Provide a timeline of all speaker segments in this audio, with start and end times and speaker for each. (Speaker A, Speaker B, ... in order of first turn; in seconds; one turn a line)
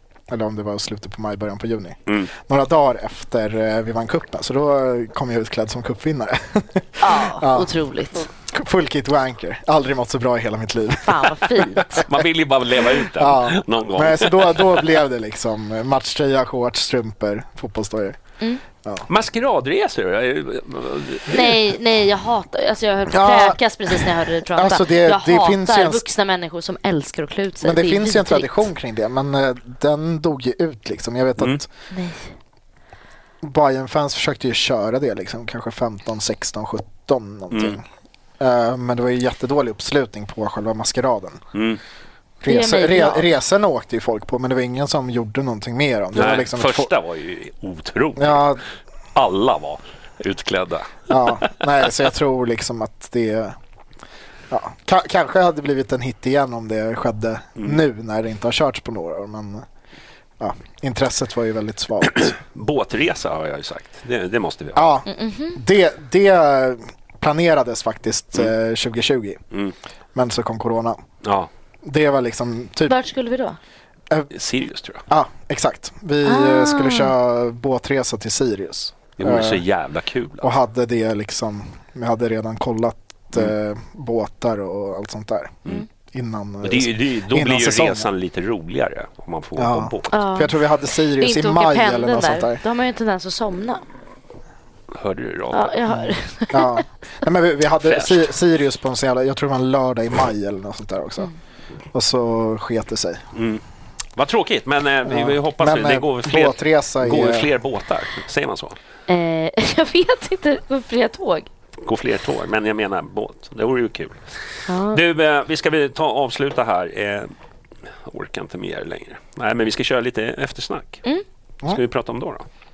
Speaker A: 0.3-7.7
Speaker B: 2.1-2.3
Speaker C: 7.0-8.2
Speaker A: 8.5-12.2
Speaker C: 11.0-12.0
Speaker B: 12.0-15.0
Speaker A: 13.1-18.2
Speaker A: 18.8-19.1
Speaker B: 19.1-21.5
Speaker C: 21.3-28.6
Speaker A: 23.1-26.0
Speaker A: 27.6-31.7
Speaker C: 31.9-32.3
Speaker A: 33.4-37.8
Speaker B: 37.5-37.8
Speaker A: 38.4-41.4
Speaker B: 41.5-41.8
Speaker A: 42.4-46.9
Speaker C: 42.5-43.3
Speaker B: 46.1-48.6
Speaker A: 48.2-48.6
Speaker B: 49.1-51.6
Speaker A: 51.1-53.5
Speaker A: 54.5-59.6
Speaker A: 60.4-62.3
Speaker B: 62.0-64.9
Speaker A: 64.7-69.4
Speaker C: 65.1-65.6
Speaker A: 70.1-71.0
Speaker B: 71.2-71.5
Speaker A: 71.8-73.0
Speaker C: 72.9-73.6
Speaker B: 74.3-75.0
Speaker A: 75.1-79.6
Speaker C: 76.2-77.1
Speaker B: 79.2-80.5
Speaker A: 80.4-88.1
Speaker B: 86.6-90.4
Speaker A: 89.5-92.6
Speaker C: 90.1-90.5
Speaker C: 91.2-93.8
Speaker B: 94.9-95.8
Speaker C: 95.5-96.8
Speaker A: 95.9-101.3
Speaker B: 97.8-98.2
Speaker A: 101.9-103.2
Speaker B: 103.3-103.6
Speaker B: 104.2-108.8
Speaker A: 105.0-107.5
Speaker C: 109.1-111.5
Speaker B: 111.8-114.2
Speaker C: 114.7-115.0
Speaker B: 114.9-117.3
Speaker B: 118.0-121.0
Speaker B: 121.6-122.4